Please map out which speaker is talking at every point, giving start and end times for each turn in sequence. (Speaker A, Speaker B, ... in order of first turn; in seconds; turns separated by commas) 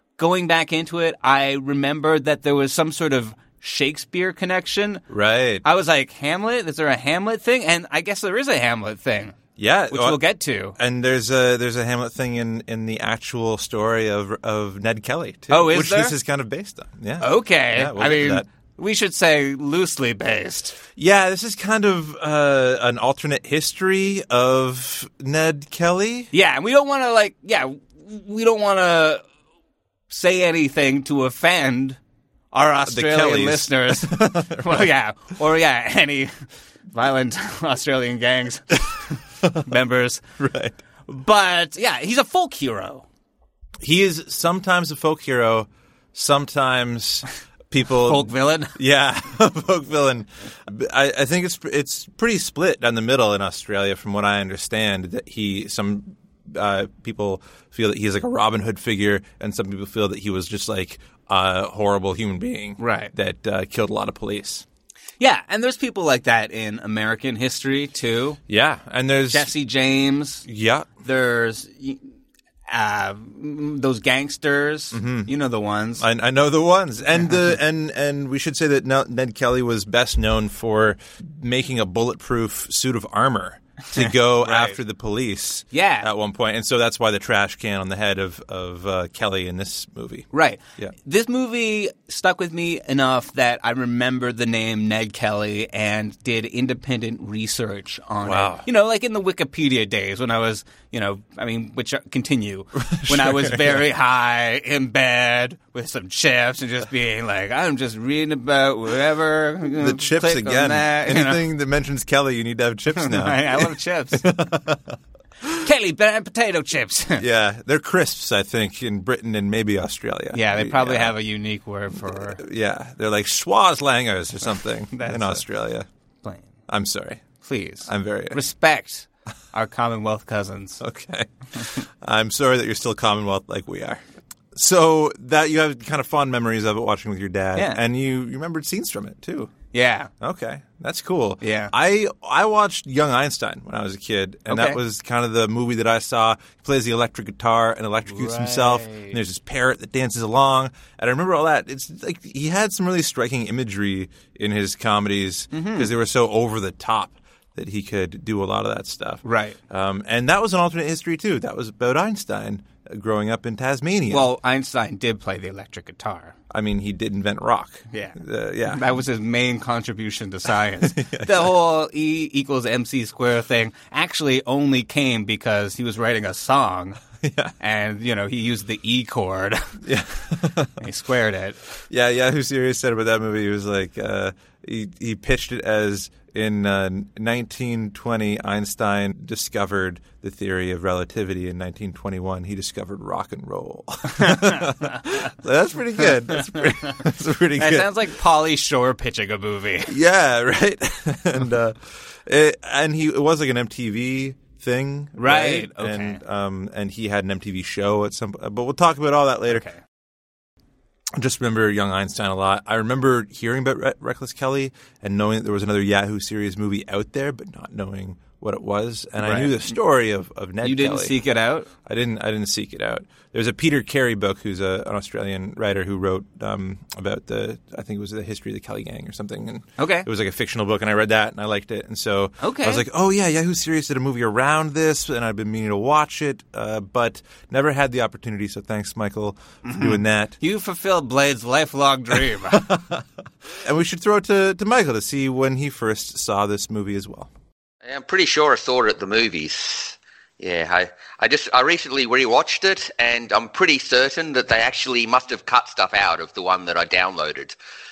Speaker A: 0.2-5.0, Speaker B: 5.1-5.6, Speaker A: 5.6-9.3, Speaker B: 9.6-10.2, Speaker A: 9.9-10.8, Speaker B: 10.8-18.5, Speaker A: 15.5-16.1, Speaker A: 17.2-20.8, Speaker B: 21.0-26.3, Speaker A: 26.3-29.2, Speaker A: 30.1-32.0, Speaker A: 32.5-38.9, Speaker B: 32.9-34.8, Speaker A: 39.6-40.2, Speaker B: 40.4-40.8, Speaker A: 41.1-43.0, Speaker B: 43.8-64.7, Speaker A: 48.0-48.8, Speaker A: 62.8-63.1, Speaker A: 65.2-68.4, Speaker B: 68.5-69.5, Speaker A: 69.3-70.5, Speaker B: 70.5-70.9, Speaker A: 71.0-72.1, Speaker A: 72.7-76.0, Speaker B: 74.9-75.3, Speaker B: 76.0-90.9, Speaker A: 83.9-84.8, Speaker A: 85.7-86.1, Speaker A: 90.3-111.4, Speaker B: 98.2-98.6, Speaker B: 102.8-103.8, Speaker B: 109.7-115.6, Speaker A: 113.0-114.2, Speaker A: 115.6-117.2, Speaker B: 117.2-121.2, Speaker A: 120.3-122.4, Speaker B: 122.1-125.9, Speaker A: 124.9-125.4, Speaker A: 126.2-126.5, Speaker B: 126.7-127.2, Speaker A: 127.4-130.8, Speaker B: 127.9-128.4, Speaker B: 130.8-139.5, Speaker A: 139.7-140.1, Speaker B: 140.2-164.3, Speaker A: 141.4-141.7, Speaker A: 144.5-144.8, Speaker A: 148.1-149.2, Speaker A: 155.5-155.9, Speaker A: 159.2-159.6, Speaker A: 164.1-166.3, Speaker B: 166.5-168.9, Speaker A: 167.9-177.0, Speaker B: 170.8-171.5, Speaker B: 177.2-177.5, Speaker A: 177.6-179.7, Speaker B: 179.8-180.8, Speaker A: 180.8-181.6, Speaker B: 181.9-197.9, Speaker A: 194.2-194.8, Speaker A: 196.5-196.9, Speaker A: 197.6-199.9, Speaker B: 199.9-209.6, Speaker A: 205.2-206.2, Speaker A: 209.5-209.8, Speaker B: 211.2-221.2, Speaker A: 219.2-219.7, Speaker A: 220.6-221.7, Speaker B: 221.8-240.4, Speaker A: 229.8-230.1, Speaker A: 232.4-232.8, Speaker A: 239.6-242.7, Speaker B: 242.5-243.0, Speaker B: 243.6-247.3, Speaker C: 247.8-257.5